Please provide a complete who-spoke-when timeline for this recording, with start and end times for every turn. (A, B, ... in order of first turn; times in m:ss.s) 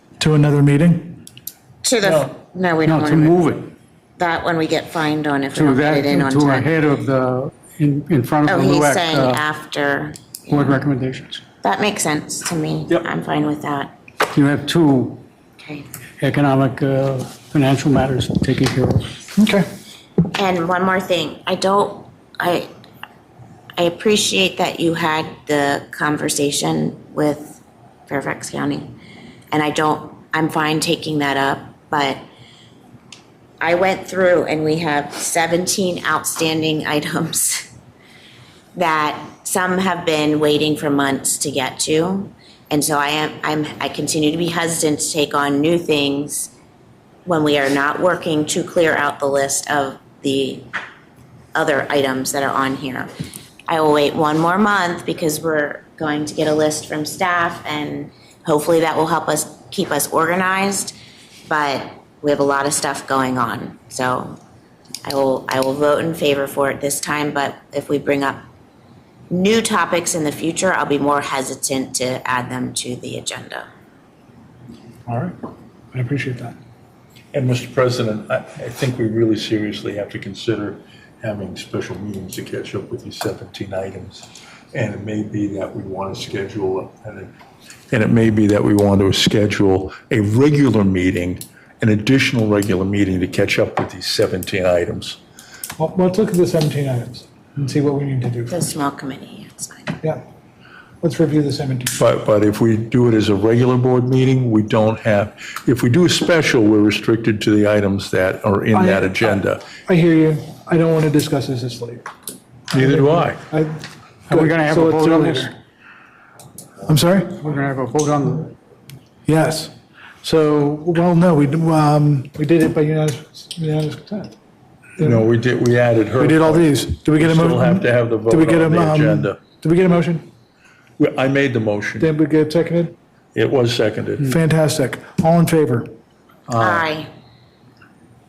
0:00.2-0:01.2 A
0:01.8-0:03.4 B
0:02.8-0:03.7 C
0:04.2-0:06.7 B
0:05.5-0:09.4 C
0:08.4-0:10.8 B
0:10.5-0:11.4 C
0:11.6-0:13.9 B
0:14.3-0:15.2 C
0:15.6-0:15.8 B
0:16.2-0:19.1 C
0:19.4-0:19.7 A
0:20.3-0:22.7 B
0:23.8-0:28.9 B
0:29.5-0:32.2 B
0:33.6-0:37.7 B
0:38.7-0:46.5 B
0:47.2-0:50.7 B
0:51.5-0:53.1 B
0:53.7-1:01.0 B
1:01.5-1:04.4 B
1:05.0-1:08.4 B
1:09.3-1:13.6 B
1:15.1-1:15.4 A
1:15.9-1:16.6 A
1:17.3-1:27.3 D
1:27.9-1:35.2 D
1:35.8-1:38.6 A
1:38.5-1:40.0 B
1:41.0-1:42.0 A
1:41.9-1:49.6 D
1:48.7-1:52.0 A
1:52.7-1:53.4 D
1:52.7-1:55.5 A
1:54.3-1:55.5 C
1:56.8-1:57.4 A
1:57.4-1:58.5 C
1:59.2-1:59.7 A
2:00.2-2:04.3 A
2:05.0-2:05.2 A
2:05.0-2:09.4 D
2:06.2-2:10.3 A
2:11.0-2:12.1 D
2:12.0-2:12.9 A
2:13.3-2:14.3 D
2:14.2-2:15.9 A
2:16.5-2:16.9 D
2:16.6-2:17.1 B